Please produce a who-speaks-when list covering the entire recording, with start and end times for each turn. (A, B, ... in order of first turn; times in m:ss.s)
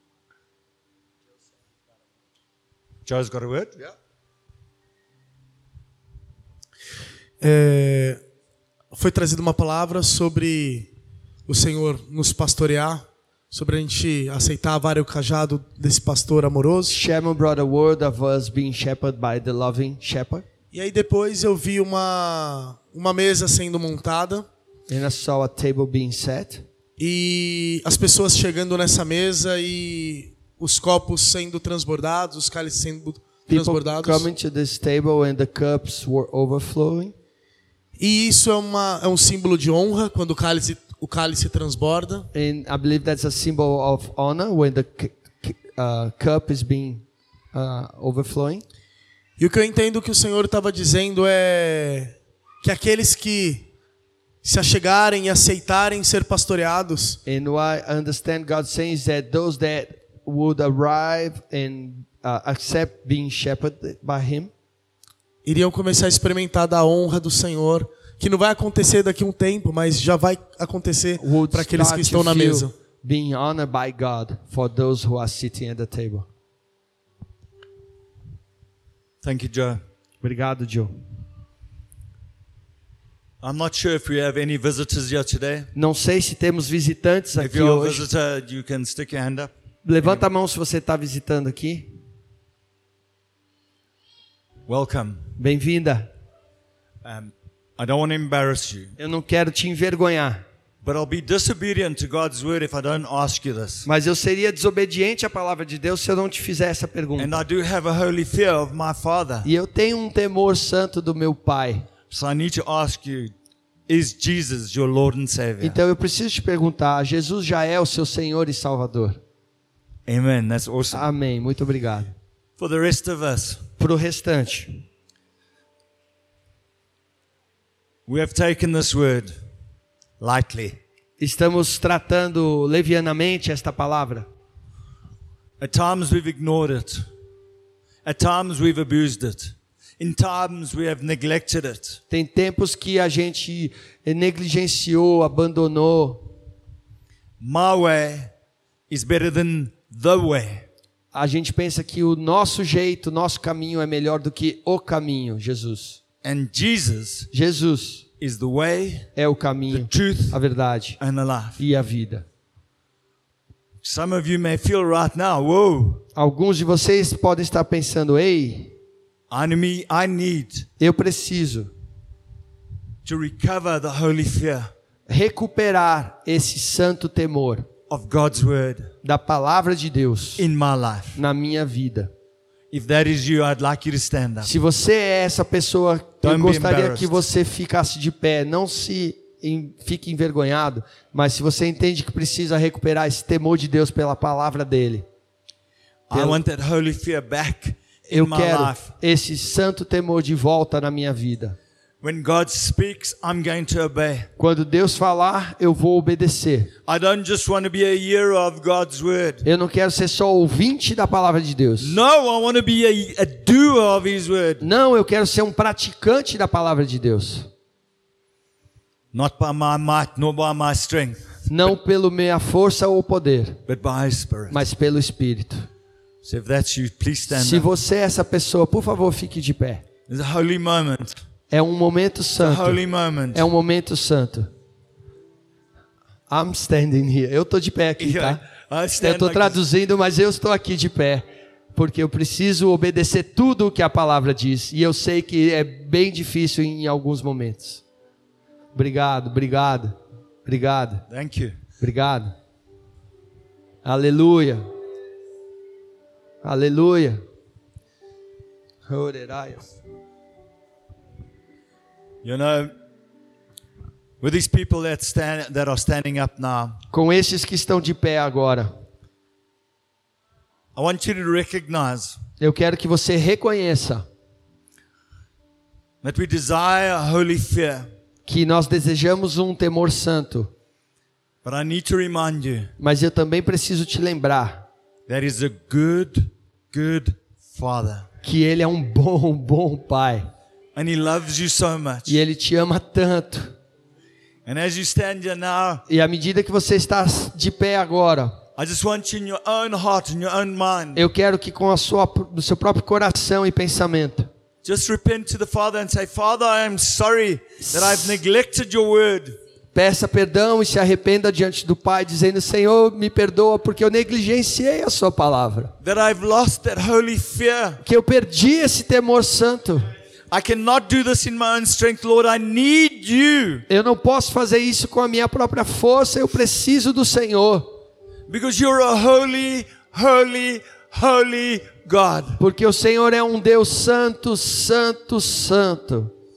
0:03.0-0:03.9 A
0:07.4-0:08.2 B
0:08.9-0:10.9 B
0:11.4-0:17.0 B
0:16.9-0:20.4 C
0:20.7-0:24.5 B
0:24.9-0:26.6 C
0:27.0-0:34.3 B
0:33.5-0:37.1 C
0:38.0-0:42.3 B
0:42.3-0:48.6 C
0:49.4-0:53.7 B
0:54.4-0:57.2 B
0:57.2-1:04.5 C
1:05.4-1:12.7 B
1:11.2-1:16.3 C
1:19.2-1:19.8 A
1:20.2-1:20.9 C
1:23.4-1:25.7 A
1:25.7-1:28.1 C
1:27.4-1:30.2 A
1:29.8-1:31.9 C
1:34.7-1:35.3 A
1:35.4-1:36.1 C
1:37.0-1:38.9 A
1:39.0-1:40.4 C
1:40.8-1:43.9 A
1:43.8-1:47.4 C
1:47.2-1:49.5 A
1:49.4-1:51.9 C
1:52.1-1:53.3 A
1:53.9-1:55.8 A
1:55.6-1:59.2 C
2:00.1-2:01.0 A
2:00.9-2:02.1 C
2:02.6-2:03.7 A
2:03.8-2:04.8 C
2:08.1-2:09.4 A
2:10.2-2:10.8 A
2:11.2-2:14.3 C
2:15.6-2:17.1 A
2:18.0-2:22.0 A
2:22.1-2:26.3 C
2:27.4-2:28.3 A
2:28.9-2:30.7 A
2:31.1-2:36.0 C
2:36.2-2:37.3 A
2:37.3-2:38.0 C
2:38.2-2:39.1 A
2:39.2-2:41.0 C
2:39.7-2:40.4 A
2:41.0-2:41.6 A
2:41.6-2:42.2 C
2:43.8-2:46.0 A
2:46.1-2:48.8 C
2:49.3-2:50.7 A
2:50.8-2:51.7 C
2:53.0-2:54.7 A
2:55.1-2:57.7 C
2:57.9-2:58.9 A
2:59.0-3:00.4 C
3:00.4-3:01.2 A
3:01.2-3:02.1 C
3:02.7-3:04.5 A
3:04.4-3:15.0 C
3:06.2-3:07.2 A
3:16.1-3:18.9 A
3:16.1-3:16.4 C
3:18.1-3:21.6 C
3:22.0-3:24.3 A
3:24.4-3:26.7 C
3:26.8-3:29.4 A
3:29.4-3:32.0 C
3:31.8-3:34.7 A
3:34.6-3:37.5 C
3:39.1-3:41.4 A
3:41.5-3:43.6 C
3:43.7-3:44.6 A
3:44.5-3:45.7 C
3:46.2-3:47.7 A
3:47.3-3:49.8 C
3:50.1-3:51.2 A
3:51.5-3:52.8 C
3:52.4-3:53.5 A
3:53.3-3:54.5 C
3:56.3-3:58.4 C
3:58.0-3:59.6 A
3:59.0-4:07.8 C
4:08.7-4:11.0 C
4:11.1-4:11.6 A
4:11.8-4:12.3 C
4:13.8-4:14.6 C
4:16.4-4:17.2 C
4:18.8-4:19.8 C
4:22.2-4:22.7 A
4:24.2-4:26.8 A
4:26.9-4:28.7 C
4:30.7-4:32.2 A
4:32.4-4:34.0 C
4:36.0-4:37.9 A
4:38.3-4:40.5 C
4:41.4-4:42.7 A
4:42.8-4:44.7 C
4:45.1-4:48.1 A
4:48.2-4:50.3 C
4:50.7-4:52.2 A
4:52.1-4:53.5 C
4:54.4-4:55.8 A
4:55.9-4:58.4 C
4:58.6-5:01.0 A
5:00.9-5:04.3 C
5:04.6-5:09.4 A
5:07.6-5:08.1 C
5:09.7-5:15.7 C
5:15.8-5:17.8 A
5:17.8-5:19.9 C
5:20.3-5:23.6 A
5:23.7-5:27.7 C
5:28.3-5:32.4 A
5:32.4-5:36.1 C